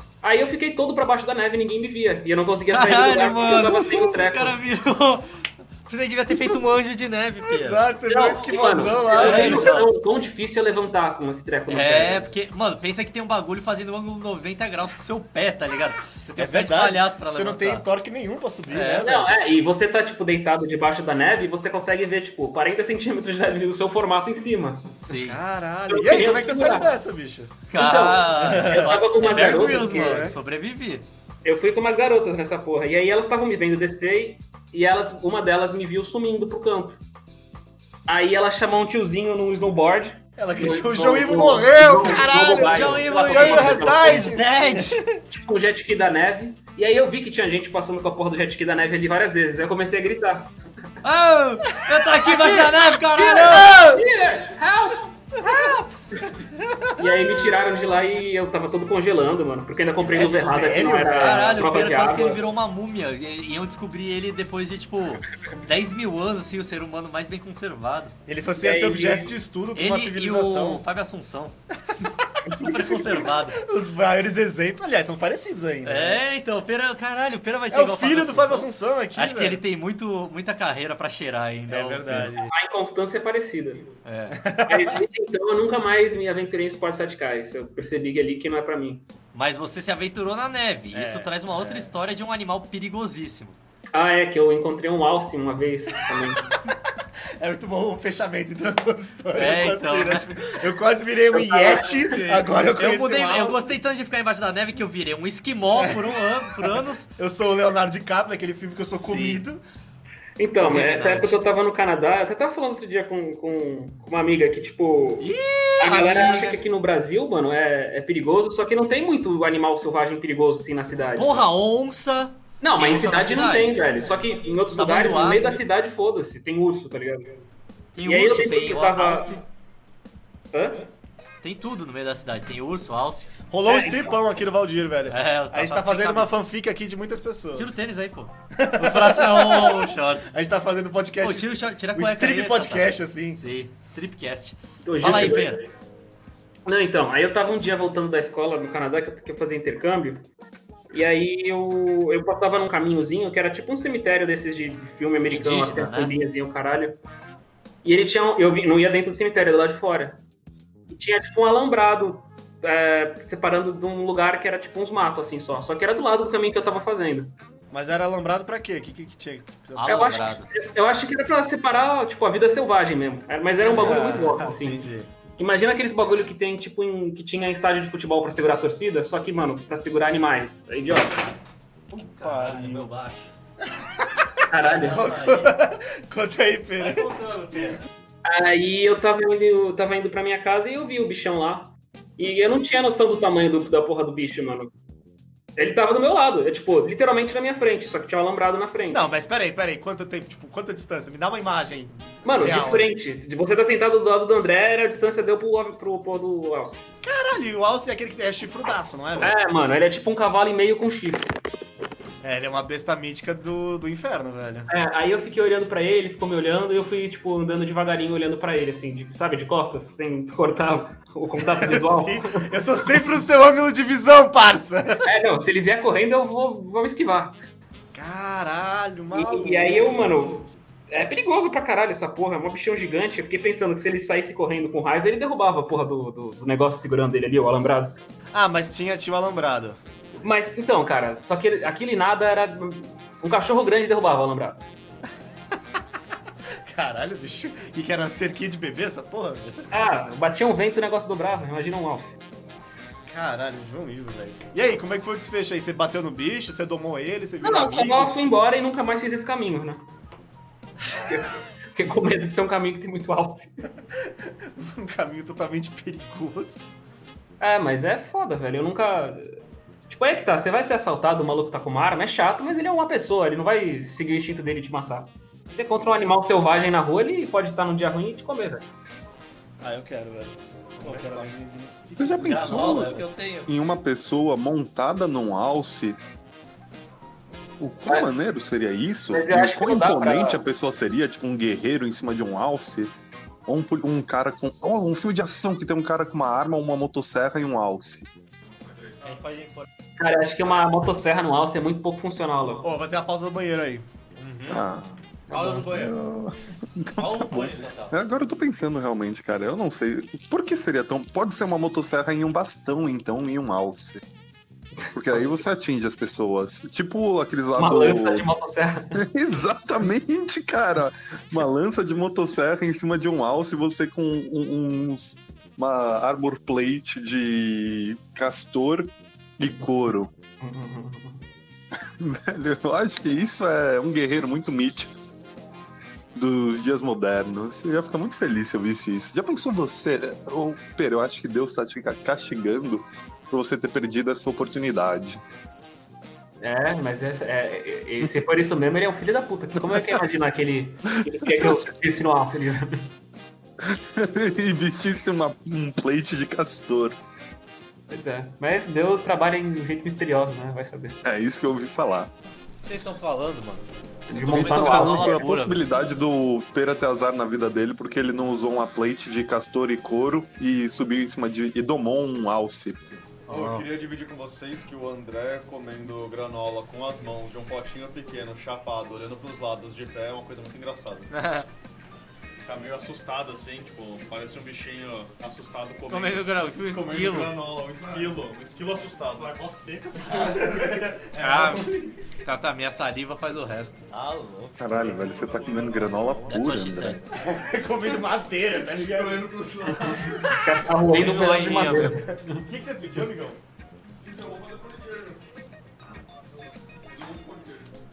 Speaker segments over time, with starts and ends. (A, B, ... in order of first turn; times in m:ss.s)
0:00.2-0:04.6 A
0:02.7-0:05.3 B
0:05.9-0:07.8 B
0:07.5-0:09.7 C
0:08.1-0:12.3 A
0:09.1-0:09.9 B
0:11.7-0:17.8 B
0:16.4-0:19.4 C
0:18.7-0:19.1 B
0:19.0-0:25.0 A
0:25.0-0:25.4 B
0:25.2-0:27.6 C
0:25.9-0:26.9 A
0:27.7-0:31.1 B
0:27.8-0:30.3 A
0:28.2-0:29.0 C
0:30.0-0:30.3 C
0:31.4-0:37.0 A
0:38.1-0:44.4 A
0:40.4-0:45.2 C
0:42.6-0:45.0 B
0:45.2-0:50.5 A
0:51.0-0:53.9 B
0:52.3-0:55.1 A
0:53.5-0:54.0 C
0:55.4-0:55.9 C
0:56.6-0:56.9 C
0:57.0-1:02.4 A
1:00.1-1:01.6 C
1:00.7-1:08.2 B
1:08.3-1:10.8 C
1:08.6-1:09.4 A
1:09.8-1:11.6 B
1:12.2-1:16.2 C
1:12.5-1:13.6 B
1:15.8-1:22.3 B
1:17.7-1:19.6 C
1:21.7-1:22.5 C
1:22.5-1:23.9 A
1:24.0-1:24.4 B
1:24.3-1:25.0 C
1:24.7-1:29.1 A
1:29.3-1:33.6 B
1:30.9-1:31.9 C
1:33.9-1:36.5 A
1:37.4-1:43.7 C
1:39.3-1:40.3 B
1:41.3-1:42.0 A
1:42.1-1:47.1 B
1:45.8-1:46.0 C
1:46.6-1:49.6 C
1:48.8-1:49.4 B
1:50.4-2:01.4 A
1:50.6-1:51.4 B
1:55.2-1:56.6 B
2:01.2-2:03.8 B
2:02.6-2:07.4 A
2:04.7-2:05.6 B
2:08.0-2:09.4 B
2:08.1-2:09.4 A
2:10.5-2:10.9 A
2:11.4-2:13.3 B
2:13.5-2:17.8 C
2:13.7-2:14.2 A
2:15.1-2:16.3 B
2:17.6-2:20.3 B
2:18.6-2:23.4 C
2:21.2-2:25.6 B
2:24.8-2:25.7 A
2:26.6-2:30.3 A
2:30.9-2:37.0 A
2:35.3-2:36.1 B
2:37.8-2:40.2 A
2:40.9-2:47.3 A
2:47.7-2:50.2 C
2:49.8-2:50.5 B
2:49.9-2:54.8 A
2:53.6-2:55.1 C
2:55.4-3:01.4 A
3:01.9-3:02.9 C
3:01.9-3:03.3 B
3:04.4-3:07.0 C
3:04.5-3:05.1 A
3:04.7-3:05.6 B
3:06.8-3:07.8 B
3:08.3-3:14.7 A
3:15.6-3:19.0 A
3:18.9-3:22.9 C
3:22.2-3:26.8 A
3:27.0-3:29.4 C
3:29.2-3:31.3 A
3:32.2-3:34.7 C
3:34.7-3:42.4 A
3:41.6-3:45.0 C
3:45.1-3:47.4 A
3:47.9-3:50.3 C
3:49.1-3:58.0 A
3:58.3-3:59.8 C
4:00.2-4:04.7 A
4:06.7-4:09.7 C
4:09.7-4:12.2 A
4:13.1-4:18.1 C
4:17.4-4:19.9 A
4:20.9-4:23.7 A
4:24.4-4:26.6 C
4:27.4-4:29.4 A
4:29.9-4:38.7 A
4:39.6-4:43.0 C
4:40.8-4:41.3 B
4:42.0-4:46.0 D
4:42.2-4:43.5 B
4:47.6-4:52.9 D
4:49.1-4:50.4 A
4:53.5-4:58.1 D
4:58.5-4:59.1 E
4:59.1-4:59.7 B
5:00.0-5:02.7 A
5:02.6-5:03.8 C
5:04.2-5:04.7 B
5:04.5-5:04.9 D
5:05.3-5:06.0 B
5:05.3-5:05.7 A
5:05.6-5:14.0 D
5:07.0-5:08.0 B
5:14.8-5:15.4 A
5:14.9-5:18.3 D
5:17.6-5:19.0 A
5:18.9-5:30.1 D
5:30.4-5:31.2 A
5:31.8-5:34.9 D
5:36.2-5:45.2 D
5:46.4-5:52.9 A
5:49.6-5:50.0 D
5:51.1-5:51.6 D
5:53.6-5:57.0 D
5:57.9-6:01.0 A
6:01.0-6:02.1 D
6:02.6-6:03.6 B
6:04.1-6:13.0 D
6:04.1-6:05.2 A
6:04.2-6:05.6 B
6:13.3-6:13.7 B
6:13.3-6:21.1 E
6:21.1-6:21.5 B
6:22.4-6:31.6 E
6:25.9-6:27.4 B
6:29.2-6:31.9 C
6:31.2-6:31.7 B
6:32.2-6:33.9 B
6:33.9-6:35.0 C
6:34.6-6:37.0 D
6:34.7-6:36.4 E
6:36.3-6:37.1 B
6:37.2-6:40.6 C
6:38.6-6:40.4 E
6:39.8-6:42.4 A
6:40.9-6:42.0 B
6:42.0-6:43.4 C
6:44.0-6:45.2 E
6:46.9-6:47.8 E